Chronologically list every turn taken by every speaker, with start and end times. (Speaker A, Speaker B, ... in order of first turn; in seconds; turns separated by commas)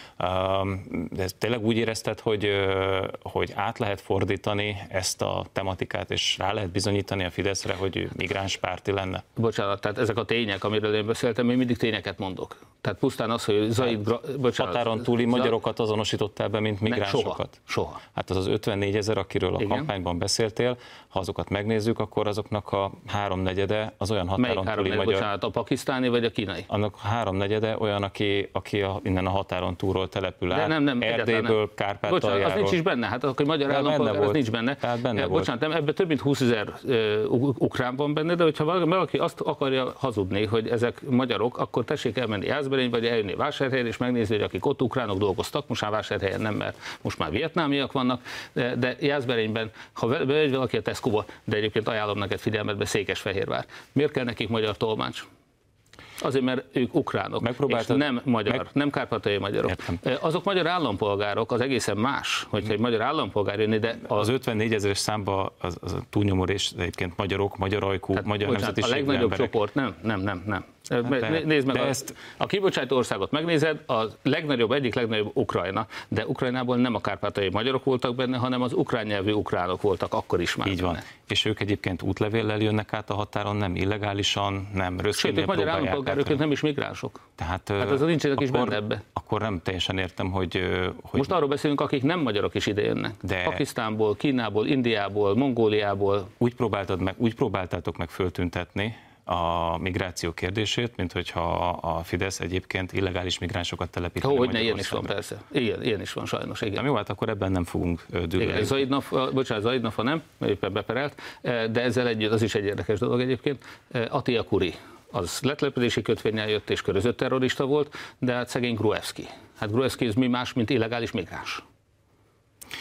Speaker A: 0.2-9.2, Speaker B: 9.4-15.5, Speaker A: 14.6-17.6, Speaker B: 16.9-18.0, Speaker A: 18.1-25.2, Speaker B: 19.6-19.9, Speaker B: 24.4-26.7, Speaker A: 26.7-32.8, Speaker B: 30.5-31.6, Speaker B: 32.1-55.2, Speaker A: 33.7-35.5, Speaker B: 56.2-64.3, Speaker A: 57.4-58.6, Speaker A: 59.7-60.0, Speaker A: 64.1-69.5, Speaker B: 68.2-81.0, Speaker A: 71.0-72.1, Speaker A: 80.6-86.4, Speaker B: 85.1-87.2, Speaker A: 87.4-91.3, Speaker B: 87.8-89.0, Speaker B: 91.2-96.3, Speaker A: 93.2-93.6, Speaker A: 96.4-105.1, Speaker B: 104.2-106.8, Speaker A: 106.7-108.8, Speaker B: 108.4-121.6